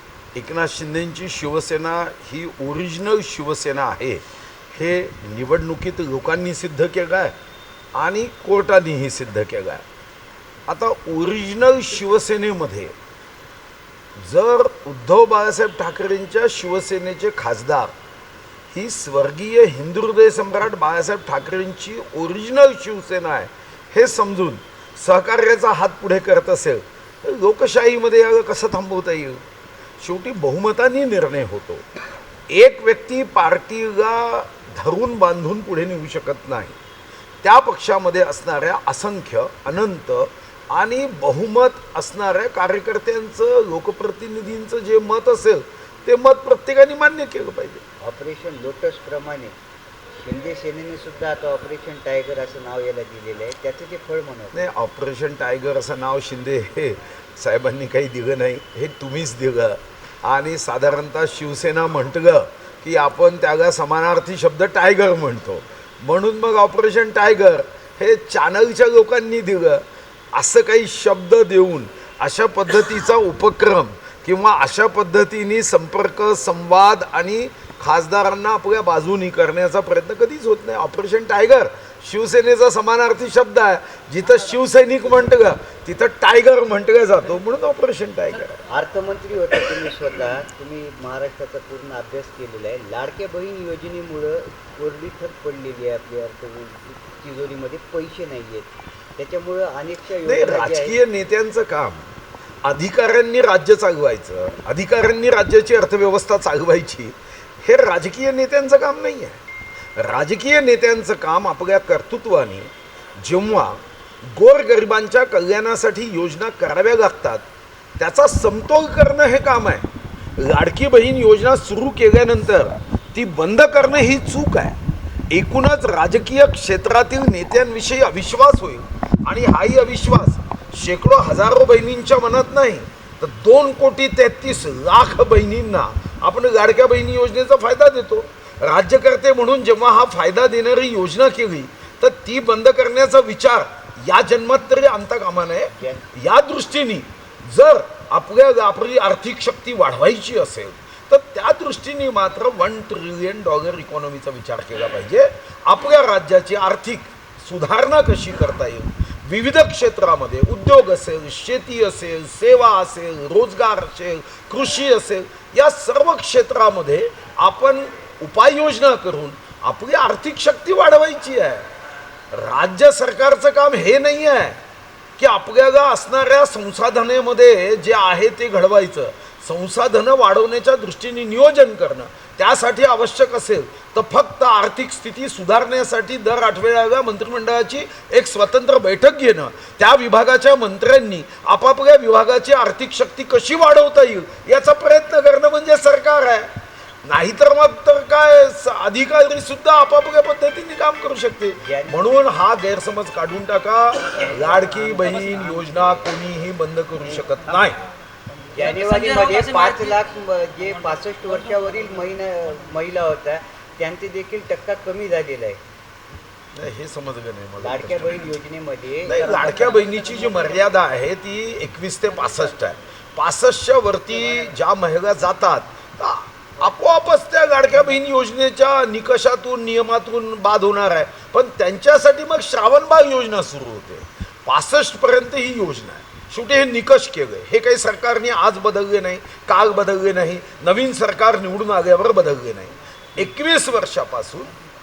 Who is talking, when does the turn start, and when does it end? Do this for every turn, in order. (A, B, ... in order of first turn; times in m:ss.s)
0:00.4-0:07.4 A
0:08.0-0:09.8 A
0:10.7-0:13.0 A
0:14.2-0:17.9 A
0:18.7-0:29.4 A
0:30.0-0:31.8 A
0:32.5-0:36.8 A
0:37.4-0:47.8 A
0:48.0-0:49.5 B
0:50.2-0:54.7 B
0:54.5-1:28.7 A
1:28.7-1:41.0 B
1:40.2-1:42.1 A
1:42.6-1:49.4 A
1:50.0-1:57.5 A
1:58.0-1:59.8 A
2:00.4-2:04.8 A
2:05.3-2:51.6 A
2:25.7-2:26.1 B
2:52.3-2:54.6 A
2:55.2-3:16.5 A
3:17.0-3:27.8 A
3:21.6-3:22.2 B
3:24.3-3:25.3 B
3:28.5-3:35.6 B
3:36.6-3:38.4 A
3:37.6-3:40.4 B
3:39.1-4:04.5 A